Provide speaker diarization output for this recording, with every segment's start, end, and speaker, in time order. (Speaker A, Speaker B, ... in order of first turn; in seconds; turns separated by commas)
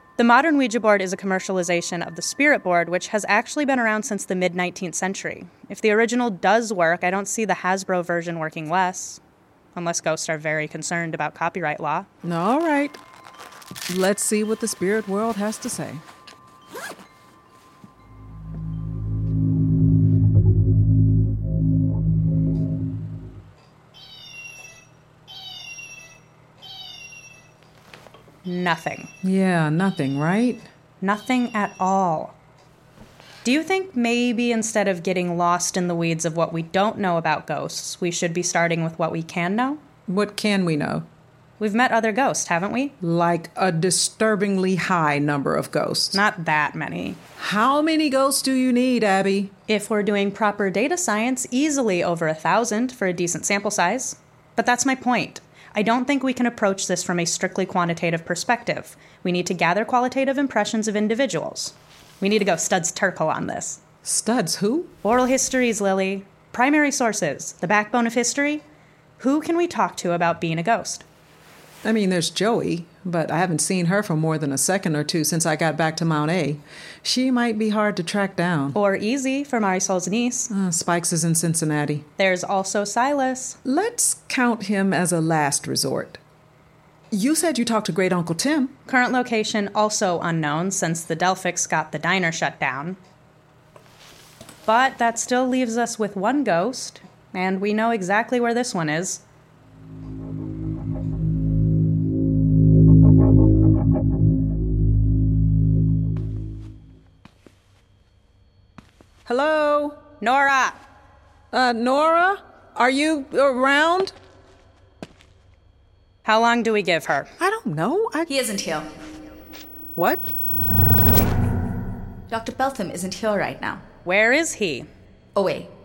Speaker A: 0.2-9.2, Speaker A: 9.7-12.1, Speaker B: 12.2-13.0, Speaker B: 13.9-16.0, Speaker A: 28.4-29.1, Speaker B: 29.2-30.7, Speaker A: 31.0-32.3, Speaker A: 33.4-39.8, Speaker B: 40.1-41.1, Speaker A: 41.6-42.9, Speaker B: 43.0-46.2, Speaker A: 46.1-47.2, Speaker B: 47.4-49.5, Speaker A: 49.7-63.8, Speaker B: 64.0-64.9, Speaker A: 65.0-68.6, Speaker A: 69.2-71.0, Speaker B: 71.8-78.8, Speaker A: 78.7-80.5, Speaker B: 80.5-82.0, Speaker A: 82.2-83.6, Speaker B: 83.6-86.2, Speaker B: 87.1-88.7, Speaker A: 88.9-93.0, Speaker A: 94.7-99.2, Speaker B: 109.2-110.0, Speaker A: 110.2-110.8, Speaker B: 111.5-114.1, Speaker A: 116.2-117.3, Speaker B: 117.4-118.3, Speaker C: 118.3-118.9, Speaker B: 120.0-120.2, Speaker C: 122.3-123.8, Speaker A: 124.0-124.9, Speaker C: 125.3-125.7